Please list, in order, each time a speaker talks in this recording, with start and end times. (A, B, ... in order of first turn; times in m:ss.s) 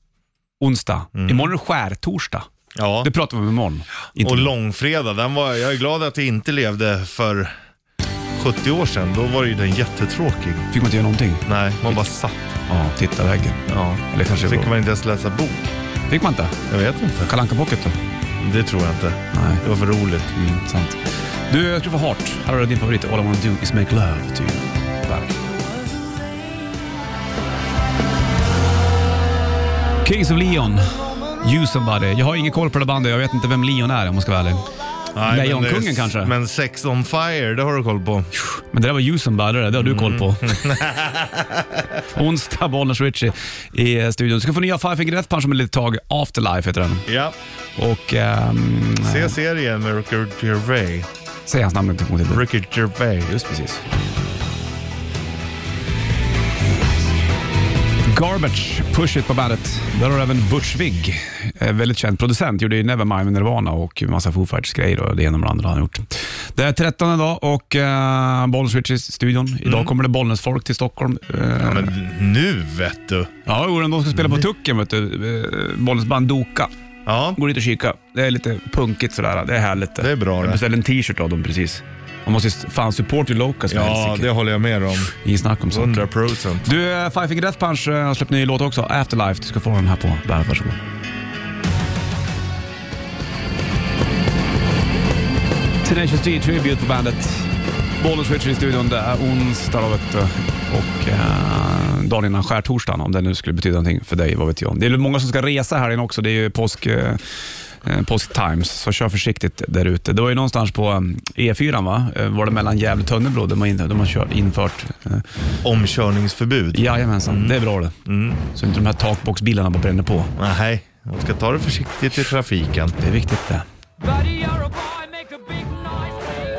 0:00.6-0:02.5 A
0:01.2-0:01.5 B
0:02.8-0:03.1 B
0:03.0-0:04.5 A
0:04.2-0:07.5 B
0:08.4-0:10.7 B
0:10.7-0:12.1 A
0:11.5-0:12.4 B
0:12.7-0:14.7 A
0:13.7-0:15.7 B
0:16.1-0:16.6 A
0:16.7-0:17.3 B
0:17.2-0:18.0 A
0:18.4-0:20.3 B
0:19.3-0:19.6 A
0:20.3-0:25.4 A
0:30.0-0:34.6 A
0:35.2-0:38.3 B
0:35.3-0:36.3 A
0:38.4-0:40.7 A
0:39.8-0:42.0 B
0:42.1-0:47.1 A
0:47.1-0:47.4 B
0:47.8-0:49.4 A
0:49.0-0:51.1 B
0:51.5-0:52.4 A
0:52.3-0:53.4 B
0:53.3-0:53.8 A
0:58.1-1:11.9 A
1:09.6-1:09.9 B
1:11.6-1:13.3 B
1:13.5-1:16.7 A
1:14.1-1:14.5 B
1:17.1-1:17.4 B
1:17.4-1:24.3 A
1:20.0-1:20.6 B
1:23.7-1:25.1 B
1:25.1-1:26.1 A
1:25.7-1:26.7 B
1:26.6-1:30.8 A
1:35.8-1:47.3 A
1:47.8-1:55.3 A
1:55.6-1:58.4 B
1:56.7-1:58.0 A
1:58.5-2:00.3 A
2:00.4-2:03.0 B
2:03.0-2:03.6 A